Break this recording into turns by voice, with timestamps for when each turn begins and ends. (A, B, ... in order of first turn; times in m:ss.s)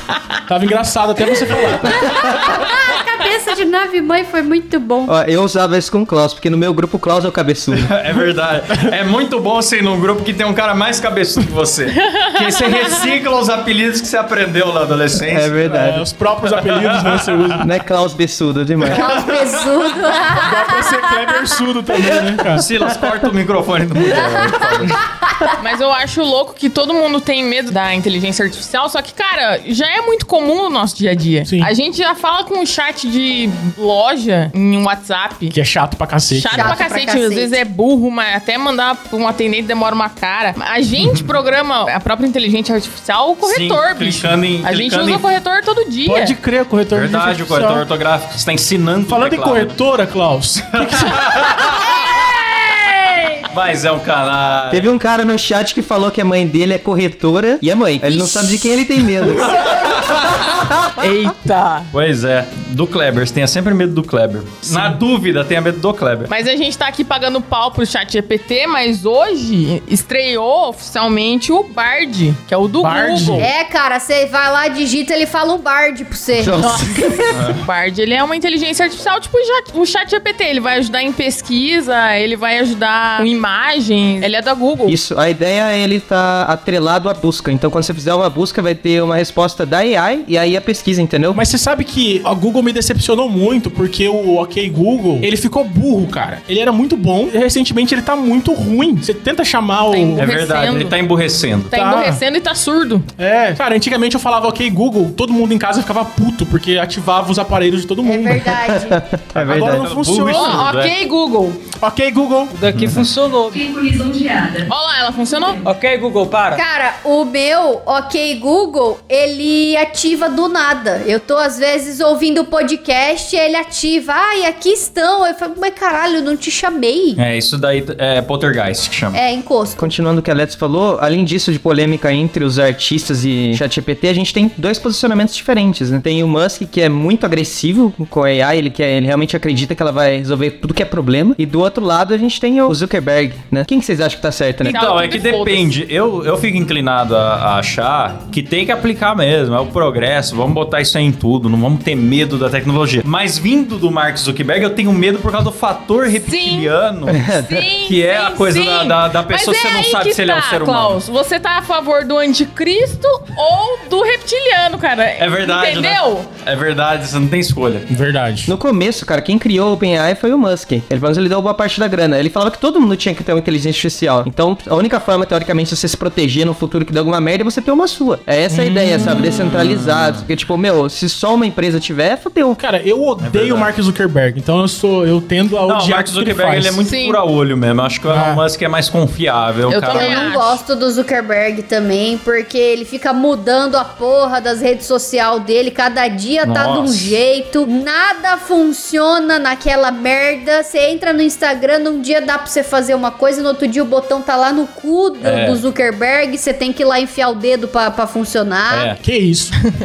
0:00.5-0:02.1 A
0:01.8-0:05.1 B
0:05.0-0:07.9 C
0:07.7-0:15.8 D
0:15.2-0:16.0 C
0:15.7-0:17.7 A
0:16.5-0:17.6 D
0:17.6-0:19.3 C
0:18.9-0:21.4 B
0:20.3-0:22.6 A
0:22.5-0:25.0 D
0:24.0-0:25.6 B
0:25.6-0:35.5 E
0:31.4-0:31.7 A
0:35.5-0:36.8 A
0:36.3-0:46.3 E
0:36.5-0:37.6 B
0:41.0-0:41.2 D
0:43.4-0:45.2 D
0:46.0-0:47.8 A
0:46.9-0:49.8 D
0:49.1-0:51.6 A
0:50.8-0:52.0 D
0:51.8-0:53.5 E
0:53.5-0:54.9 D
0:54.7-1:00.6 C
0:58.1-0:58.4 B
0:59.4-1:00.6 D
1:01.0-1:01.9 E
1:01.9-1:06.3 D
1:06.3-1:13.5 E
1:12.8-1:13.4 A
1:13.4-1:16.9 B
1:16.4-1:17.5 C
1:16.6-1:25.0 E
1:17.3-1:17.6 D
1:24.8-1:31.4 C
1:31.3-1:40.2 A
1:39.9-1:41.0 E
1:40.2-1:41.7 D
1:41.7-1:43.1 E
1:41.7-1:42.2 A
1:43.2-1:48.4 A
1:48.0-1:49.0 B
1:48.7-1:49.9 C
1:49.3-1:50.9 D
1:49.4-1:50.6 A
1:50.3-1:51.6 E
1:51.8-1:52.5 A
1:52.5-1:54.6 F
1:52.7-1:53.0 D
1:54.6-1:55.6 E
1:55.6-1:56.6 F
1:56.5-2:07.2 B
2:07.2-2:09.2 D
2:09.1-2:09.9 B
2:09.8-2:24.8 C
2:24.6-2:25.7 E
2:24.6-2:37.3 D
2:36.2-2:36.7 E
2:37.1-2:37.6 C
2:37.2-2:46.3 E
2:37.8-2:41.0 D
2:45.2-2:47.9 D
2:47.9-2:48.5 A
2:48.4-3:02.6 C
2:58.5-2:59.2 A
2:59.2-3:00.2 D
3:02.6-3:06.8 A
3:03.2-3:03.7 D
3:05.6-3:10.3 D
3:06.8-3:07.2 E
3:08.1-3:08.4 A
3:09.7-3:10.6 E
3:09.9-3:28.9 B
3:16.4-3:17.2 D
3:25.2-3:25.6 D
3:28.7-3:29.0 D
3:29.0-3:29.6 A